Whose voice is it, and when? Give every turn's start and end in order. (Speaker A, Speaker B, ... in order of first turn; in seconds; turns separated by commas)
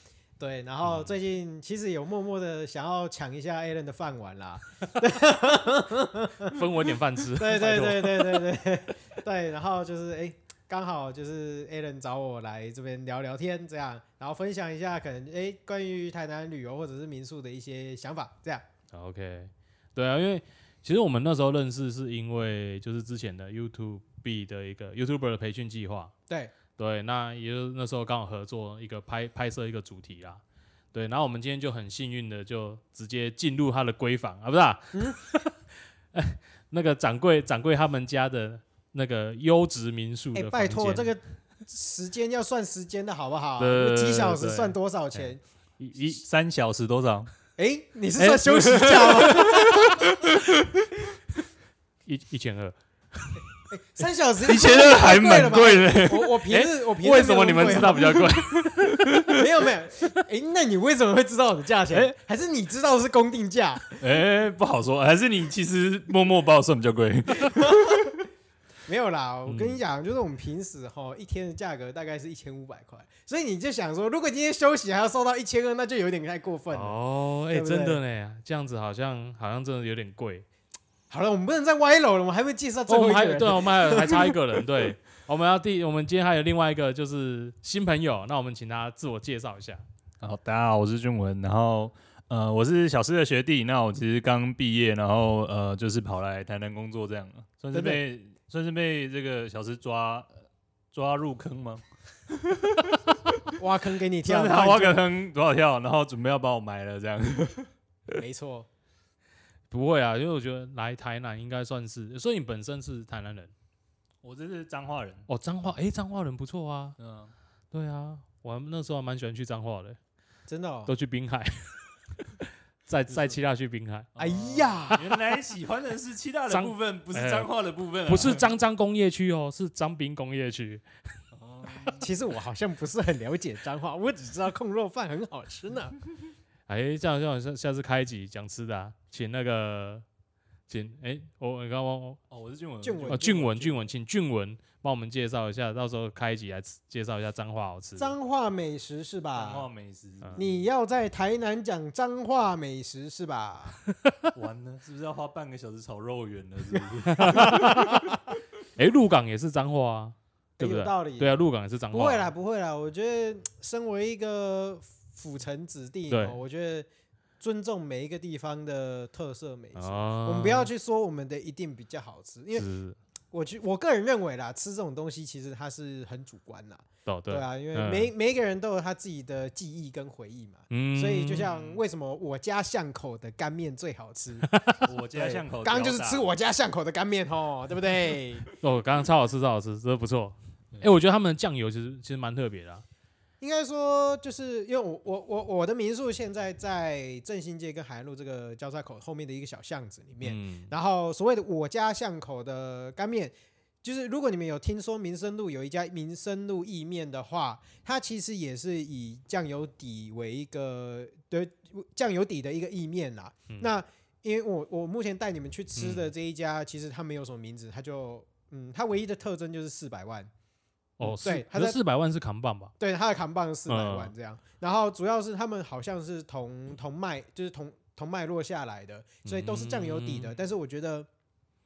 Speaker A: 0.4-6.6, Speaker B: 0.8-1.1, Speaker B: 6.4-8.5, Speaker A: 7.3-18.6, Speaker B: 18.9-26.1, Speaker A: 26.3-26.5, Speaker B: 26.8-41.1, Speaker A: 40.3-45.4, Speaker B: 43.6-46.2, Speaker C: 46.0-47.3, Speaker A: 47.6-50.0, Speaker B: 48.2-50.1, Speaker B: 52.1-53.4, Speaker A: 53.7-58.3, Speaker C: 54.5-56.4, Speaker B: 56.5-59.1, Speaker C: 58.3-59.3, Speaker A: 59.3-64.0, Speaker C: 64.0-68.1, Speaker A: 67.5-68.1, Speaker A: 68.9-77.0, Speaker B: 69.5-69.8, Speaker B: 76.7-80.5, Speaker A: 77.5-78.0, Speaker A: 81.1-84.7, Speaker B: 82.9-89.8, Speaker C: 90.2-103.6, Speaker A: 97.7-98.0, Speaker A: 103.6-105.0, Speaker C: 104.2-107.7, Speaker A: 108.1-108.7, Speaker B: 109.7-113.5, Speaker C: 114.2-115.3, Speaker B: 115.3-117.0, Speaker C: 117.0-117.3, Speaker B: 117.7-120.0, Speaker A: 120.5-120.9, Speaker B: 120.9-124.1, Speaker C: 123.1-123.4, Speaker C: 124.2-128.6, Speaker A: 124.2-125.1, Speaker B: 126.5-127.5, Speaker B: 128.1-130.9, Speaker C: 131.3-132.1, Speaker A: 132.0-136.0, Speaker B: 136.7-140.1, Speaker B: 140.7-142.2, Speaker C: 142.3-143.4, Speaker A: 142.8-143.8, Speaker B: 143.1-148.2, Speaker A: 148.0-149.7, Speaker C: 149.3-150.7, Speaker A: 150.4-153.8, Speaker C: 154.3-158.0, Speaker B: 157.2-158.0, Speaker A: 157.2-158.2, Speaker B: 158.8-162.3, Speaker A: 160.6-166.9, Speaker B: 166.1-166.4, Speaker A: 167.4-172.7, Speaker B: 169.8-170.7, Speaker B: 172.5-173.0, Speaker A: 173.3-188.5, Speaker B: 177.1-178.1, Speaker B: 180.7-181.5, Speaker C: 181.4-181.8, Speaker B: 184.5-184.8, Speaker C: 184.8-186.3, Speaker B: 188.6-192.8, Speaker A: 193.4-220.3, Speaker B: 200.2-200.7, Speaker B: 215.8-216.1, Speaker B: 221.0-222.7, Speaker A: 221.0-221.8, Speaker A: 222.8-231.1, Speaker B: 223.7-224.1, Speaker B: 229.2-230.3